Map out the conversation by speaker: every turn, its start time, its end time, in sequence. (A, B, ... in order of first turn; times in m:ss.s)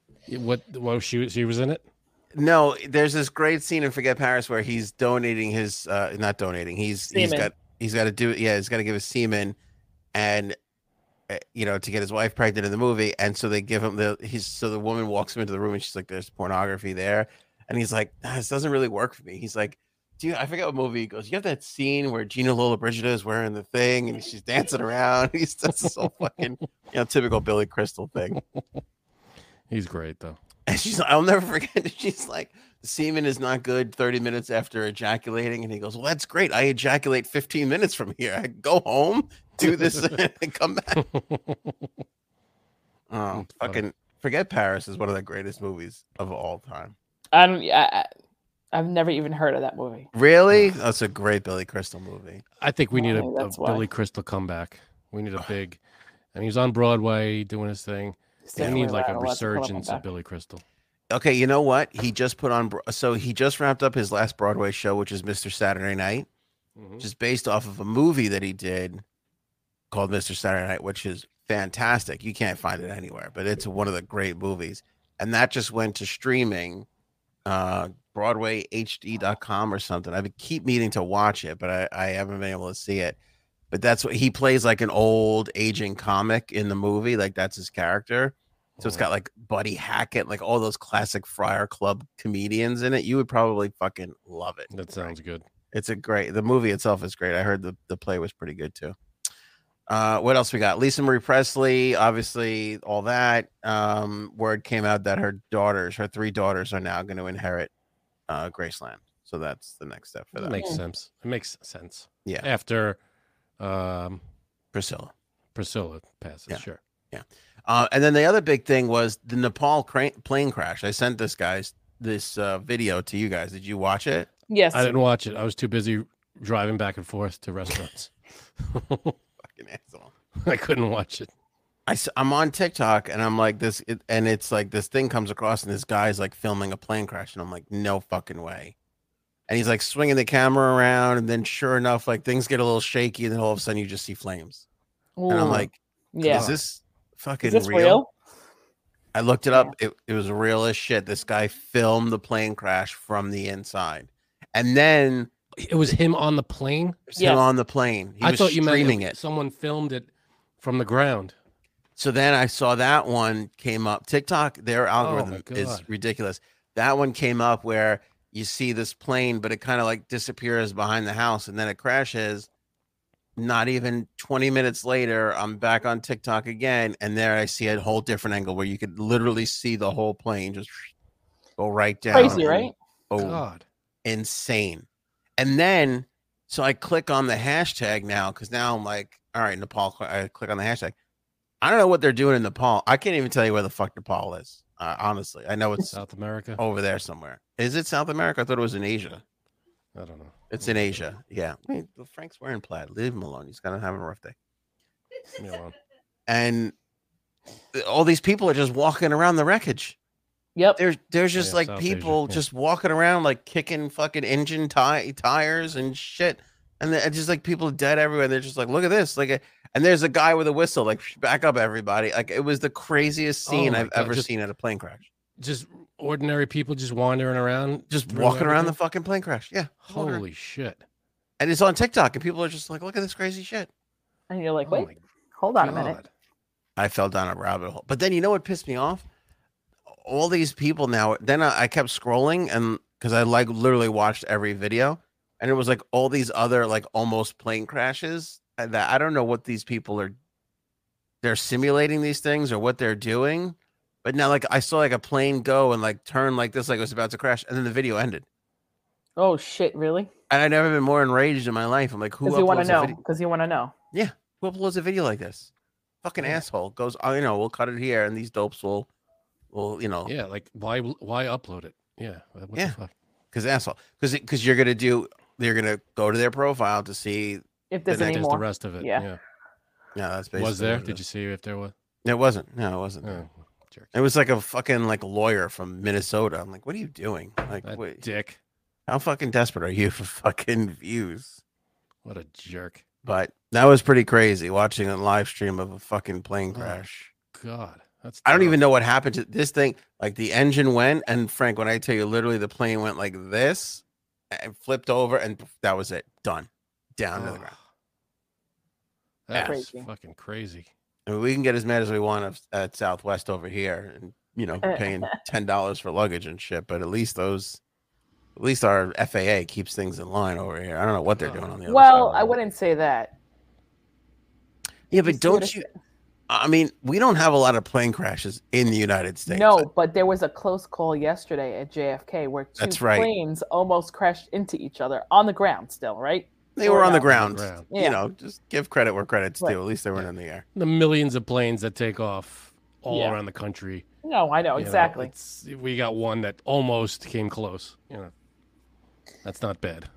0:00.3-0:01.8 A
0:02.3-0:09.6 B
0:07.1-0:07.5 C
0:10.1-0:10.6 B
0:11.3-0:28.4 B
0:29.7-0:30.4 A
0:30.7-0:41.0 B
0:41.0-0:41.7 A
0:43.1-0:47.0 B
0:43.3-0:43.8 A
0:47.3-0:48.1 C
0:48.7-0:50.1 C
0:50.1-0:52.4 B
0:52.6-0:55.8 A
0:52.9-0:53.9 C
0:56.3-1:00.6 A
0:58.5-1:00.0 C
1:01.1-1:06.3 B
1:06.8-1:07.1 A
1:07.0-1:09.0 B
1:09.9-1:16.9 B
1:17.5-1:23.2 B
1:23.7-1:35.1 B
1:28.8-1:29.1 A
1:34.7-1:35.4 A
1:35.7-1:39.0 B
1:39.9-1:47.7 B
1:48.3-1:50.6 B
1:50.4-1:53.0 A
1:53.6-1:54.2 A
1:54.7-1:55.1 B
1:55.6-1:56.8 A
1:56.5-2:04.3 B
2:04.5-2:04.9 C
2:04.7-2:09.2 A
2:09.4-2:10.1 B
2:10.4-2:11.3 A
2:11.9-2:18.8 B
2:19.5-2:24.6 B
2:25.2-2:26.5 C
2:25.3-2:28.0 B
2:26.3-2:26.6 A
2:27.4-2:28.1 C
2:29.1-2:35.3 B
2:35.6-2:37.1 A
2:37.1-2:39.2 B
2:37.2-2:37.4 C
2:38.2-2:40.1 A
2:40.6-2:41.4 A
2:42.0-2:52.5 B
2:45.0-2:45.9 A
2:53.4-3:00.9 B
3:01.6-3:03.4 B
3:02.1-3:02.4 A
3:02.1-3:02.7 C
3:03.2-3:03.6 A
3:04.0-3:04.9 B
3:05.4-3:11.0 B
3:11.6-3:16.0 B
3:15.9-3:16.6 A
3:16.6-3:19.2 B
3:20.0-3:21.0 A
3:20.5-3:24.4 B
3:25.4-3:25.8 A
3:26.3-3:26.7 B
3:27.7-3:30.0 B
3:30.6-3:30.8 C
3:30.8-3:45.1 B
3:31.4-3:32.4 A
3:43.5-3:44.3 A
3:45.4-3:48.8 A
3:47.9-3:50.2 B
3:49.8-3:50.8 A
3:51.4-3:53.7 B
3:54.3-3:56.0 C
3:54.7-3:55.0 A
3:55.6-3:56.1 A
3:56.8-3:59.1 B
3:59.9-4:10.2 B
4:11.2-4:18.3 B
4:19.2-4:20.1 C
4:20.3-4:23.0 B
4:22.2-4:23.7 C
4:23.9-4:25.5 B
4:26.0-4:28.9 B
4:29.5-4:30.1 B
4:30.1-4:32.9 A
4:33.3-4:38.2 B
4:37.7-4:39.0 C
4:37.9-4:39.2 A
4:40.0-4:41.0 B
4:40.4-4:41.7 A
4:42.0-4:43.2 B
4:43.0-4:43.9 A
4:43.9-4:48.0 B
4:47.6-4:48.4 A
4:48.9-4:51.4 B
4:52.0-4:52.8 A
4:53.0-4:57.1 B
4:56.5-4:56.8 A
4:57.3-4:58.6 A
4:58.2-5:07.5 B
5:07.2-5:07.6 A
5:09.3-5:10.7 A
5:09.4-5:09.9 C
5:11.1-5:17.6 B
5:14.6-5:15.1 C
5:18.4-5:22.4 B
5:21.2-5:21.4 A
5:21.7-5:23.2 C
5:24.9-5:25.7 B
5:24.9-5:25.7 C
5:26.3-5:29.7 B
5:29.3-5:37.1 C
5:32.6-5:33.1 B
5:36.6-5:40.4 B
5:37.1-5:37.7 A
5:37.7-5:38.0 C
5:40.0-5:43.8 A
5:42.9-5:43.2 C
5:44.0-5:45.1 C
5:44.6-5:48.1 A
5:49.2-5:49.9 A